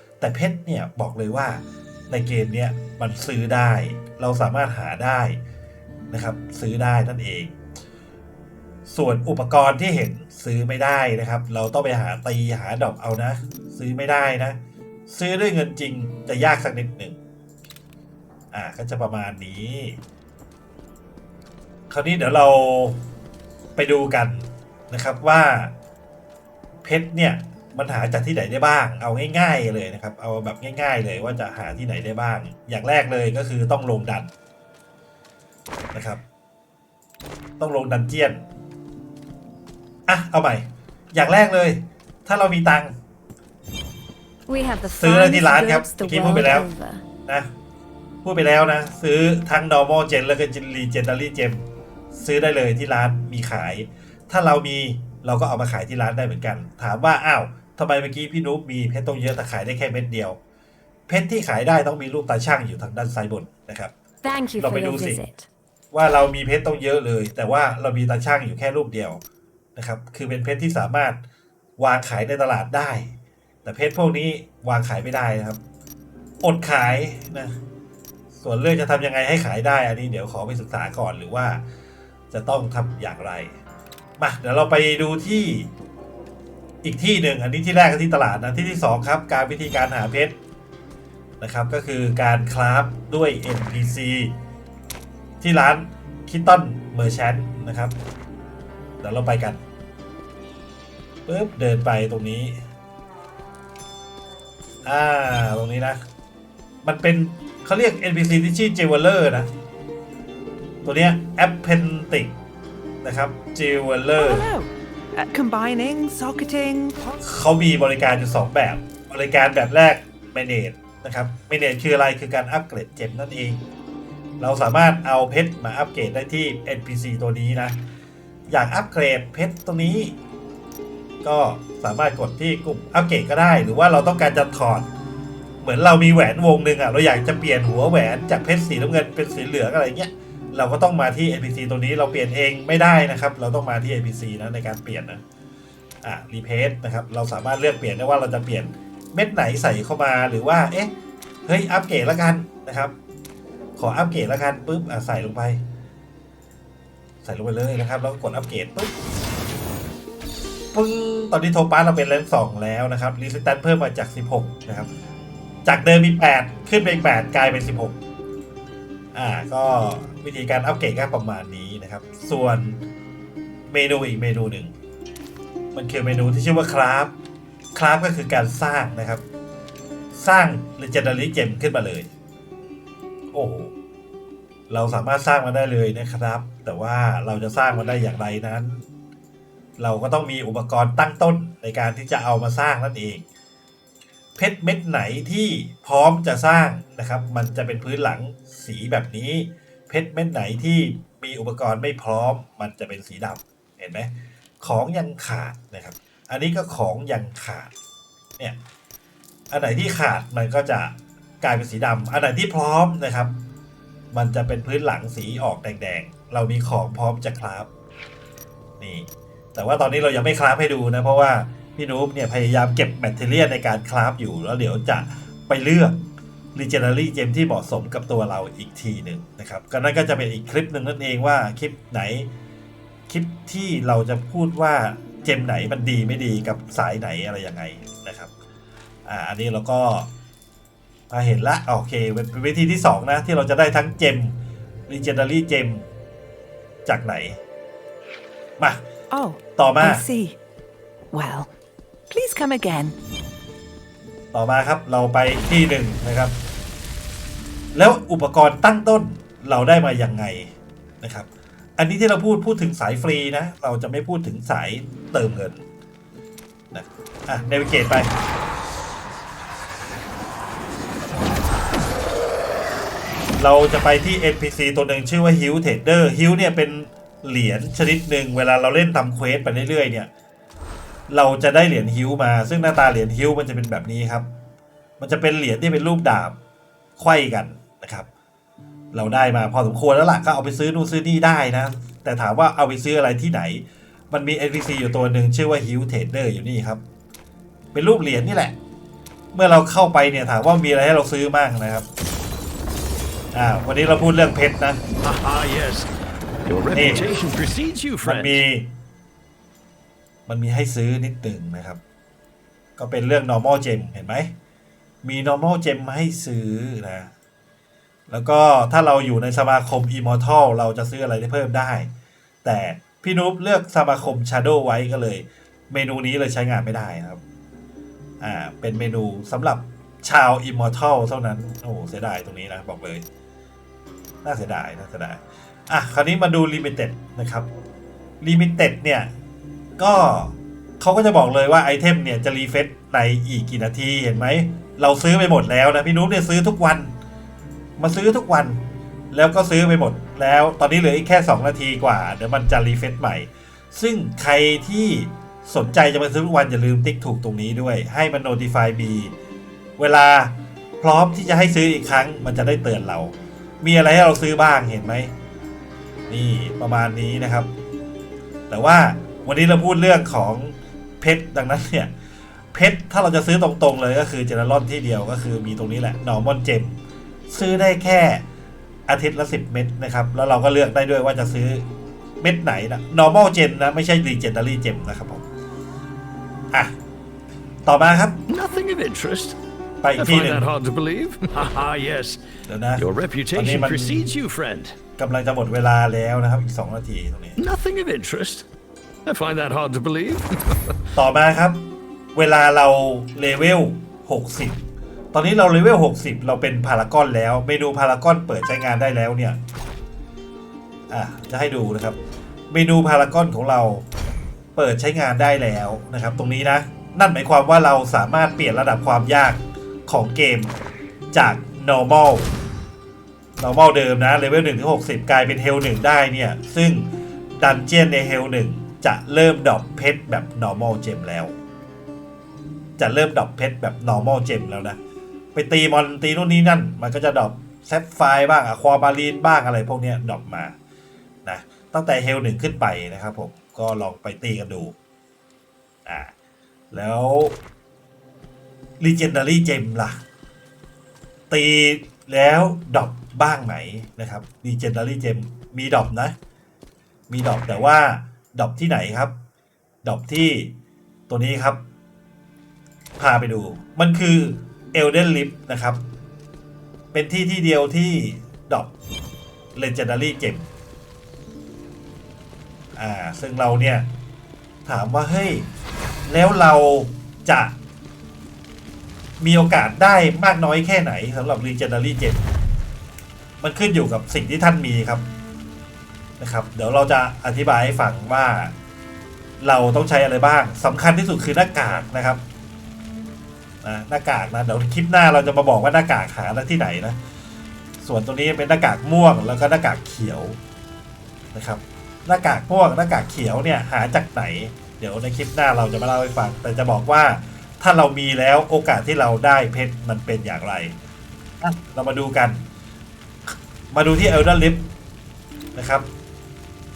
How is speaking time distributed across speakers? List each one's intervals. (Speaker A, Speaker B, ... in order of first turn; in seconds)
Speaker A: 0.2-5.4, 6.1-7.5, 8.9-17.2, 18.5-20.0, 21.9-23.0, 23.8-25.7, 26.8-34.3, 35.9-36.2, 37.6-38.5, 40.1-42.9, 44.9-46.7, 48.2-60.4, 61.1-63.9, 64.6-65.2, 65.9-69.2, 69.8-71.2, 71.8-75.6, 76.4-77.6, 78.4-81.6, 82.3-83.5, 84.2-85.7, 86.8-90.3, 91.4-94.3, 95.4-98.0, 99.0-99.6, 101.3-102.6, 104.8-106.0, 106.8-109.5, 110.8-112.3, 113.0-114.5, 117.2-123.6, 124.4-127.8, 128.5-130.2, 131.2-134.9, 135.6-145.2, 146.0-150.9, 151.5-152.9, 153.8-155.6, 157.2-158.9, 160.7-164.9, 165.7-168.0, 169.1-172.8, 173.7-174.7, 175.7-177.1, 177.8-179.2, 180.1-182.1, 183.3-183.7, 184.7-188.8, 189.8-193.2, 194.4-207.7, 209.5-213.4, 214.1-217.7, 218.8-226.0, 226.6-232.3, 233.1-238.3, 239.1-240.1, 241.1-244.4, 244.9-245.9, 246.9-247.4, 249.6-250.0, 254.3-256.4, 257.8-265.6, 266.7-268.1, 273.4-280.1, 281.1-284.3, 285.0-286.4, 287.0-288.1, 288.9-296.8, 297.7-298.6, 299.3-301.9, 303.3-304.8, 306.7-307.1, 308.0-308.7, 310.3-311.8, 312.8-314.3, 315.0-317.1, 318.1-321.9, 322.4-327.2, 328.2-333.0, 334.2-337.5, 338.2-339.1, 339.8-346.9, 347.8-359.1, 359.8-365.1, 366.1-367.5, 368.5-371.9, 372.5-376.8, 377.3-378.2, 378.9-381.7, 382.2-385.2, 387.7-388.2, 389.8-390.5, 392.5-394.1, 395.0-397.4, 400.9-401.6, 402.1-404.6, 405.1-409.4, 410.9-412.0, 412.5-413.9, 414.6-420.5, 421.1-422.3, 423.4-431.4, 432.8-434.8, 435.3-440.5, 441.2-444.8, 445.9-446.1, 446.7-447.4, 448.8-450.0, 451.3-456.1, 457.1-459.1, 459.8-460.5, 461.1-461.6, 463.0-465.8, 466.9-468.7, 469.6-470.5, 472.8-473.9, 474.7-475.5, 476.1-477.5, 479.2-482.2, 483.4-485.1, 486.2-488.5, 489.4-492.2, 493.6-497.0, 497.8-500.4, 501.3-510.8, 511.4-512.4, 513.7-514.6, 515.5-515.9
Speaker B: 44.5-47.0, 64.2-65.5
Speaker C: 114.2-117.0, 249.1-250.4, 251.1-251.5, 252.1-253.0
Speaker D: 305.0-305.9, 306.4-308.4, 388.3-389.4, 390.0-392.2, 392.8-394.8, 397.4-398.5, 399.1-400.8